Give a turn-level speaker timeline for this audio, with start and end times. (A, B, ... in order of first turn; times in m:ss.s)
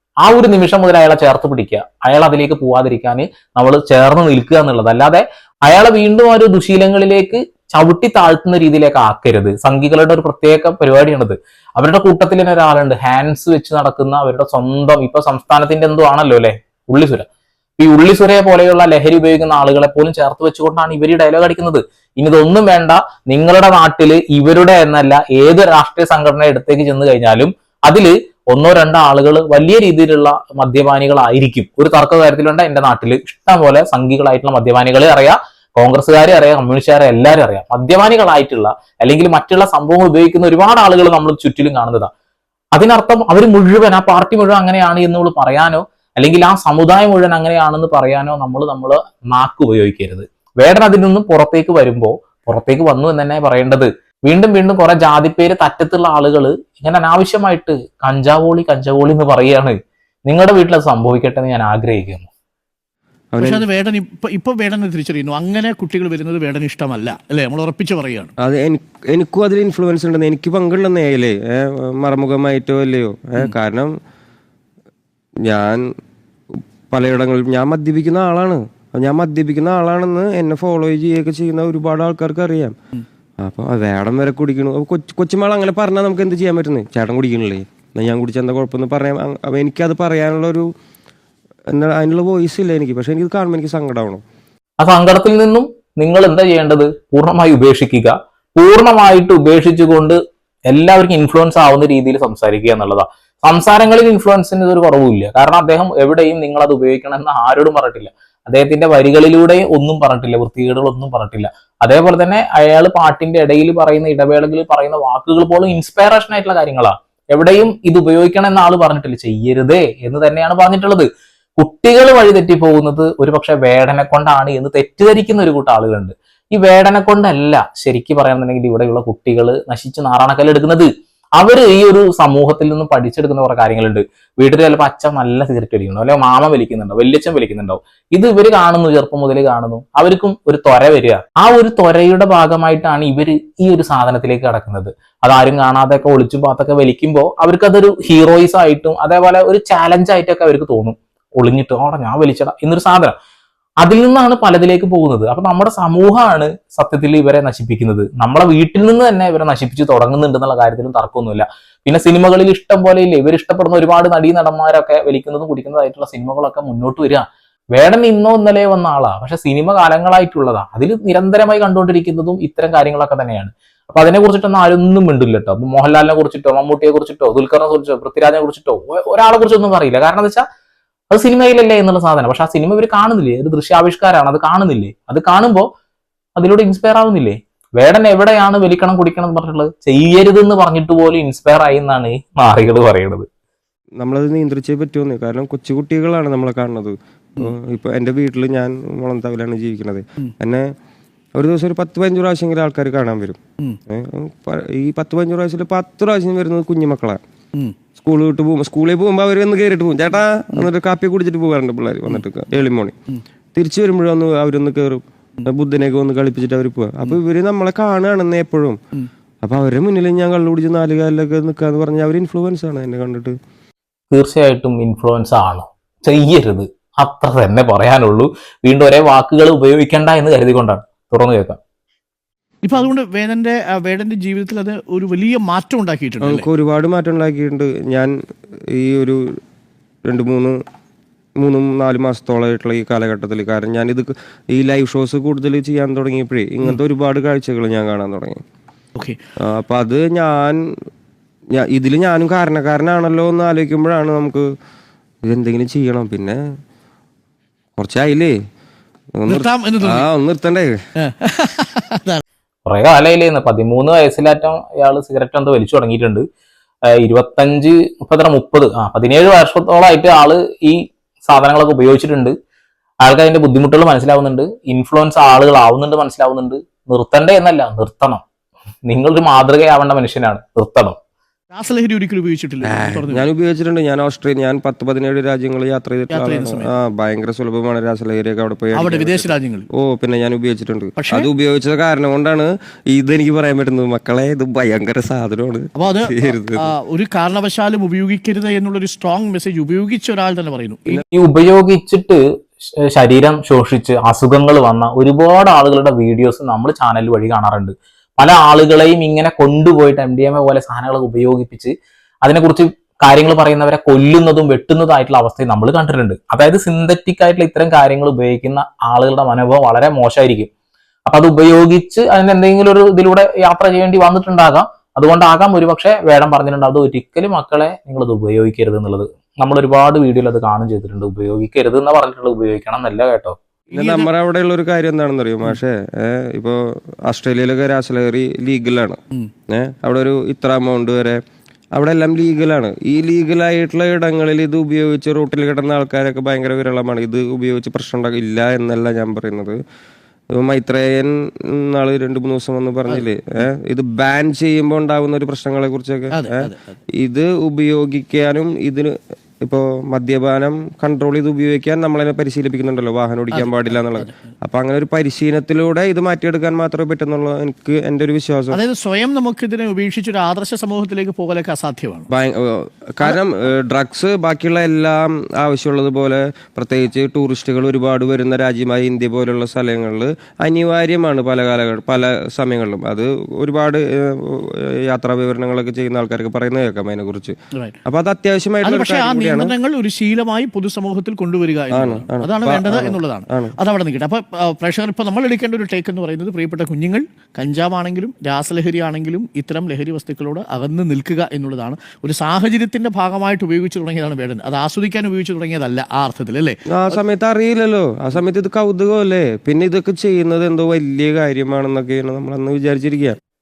0:00.2-0:17.3 A
0:17.8-0:42.1 A
0:42.8-0:59.8 A
1:00.3-1:02.3 A
1:03.3-1:03.6 B
1:03.4-1:08.3 C
1:08.4-1:13.9 B
1:15.5-1:15.8 B
1:16.9-1:22.8 B
1:23.4-1:30.7 B
1:31.7-1:34.2 B
1:34.8-1:40.2 A
1:40.7-2:33.2 A
2:33.8-2:47.2 A
2:47.8-3:00.4 A
3:01.1-3:05.7 A
3:06.4-3:13.3 A
3:14.0-3:20.6 B
3:21.4-3:27.2 B
3:28.0-3:33.0 B
3:33.6-3:38.8 B
3:39.4-3:43.4 B
3:44.1-3:51.6 A
3:52.6-3:56.5 C
3:56.2-3:58.1 B
3:58.7-3:59.2 B
4:00.1-4:00.6 B
4:01.4-4:08.4 B
4:09.5-4:10.6 B
4:11.6-4:14.4 B
4:15.3-4:16.4 B
4:17.8-4:18.3 B
4:19.2-4:20.7 B
4:19.3-4:20.0 C
4:21.0-4:22.2 C
4:22.7-4:26.2 A
4:26.9-4:32.3 A
4:33.0-4:38.2 A
4:38.9-4:41.0 A
4:41.5-4:43.3 C
4:42.6-4:56.7 B
4:46.1-4:46.8 C
4:48.7-4:49.7 C
4:51.0-4:51.3 C
4:55.8-5:01.0 C
5:01.1-5:11.7 A
5:12.2-5:20.5 A
5:21.1-5:33.4 A
5:33.7-5:34.1 C
5:33.7-5:41.2 B
5:41.8-5:49.6 B
5:50.4-5:58.9 B
5:56.1-5:56.8 C
5:59.4-6:08.6 B
6:03.3-6:04.2 C
6:08.5-6:12.1 C
6:12.1-6:27.3 B
6:27.5-6:27.8 C
6:27.9-6:29.5 B
6:28.6-6:47.0 C
6:31.7-6:33.5 B
6:46.7-6:53.2 B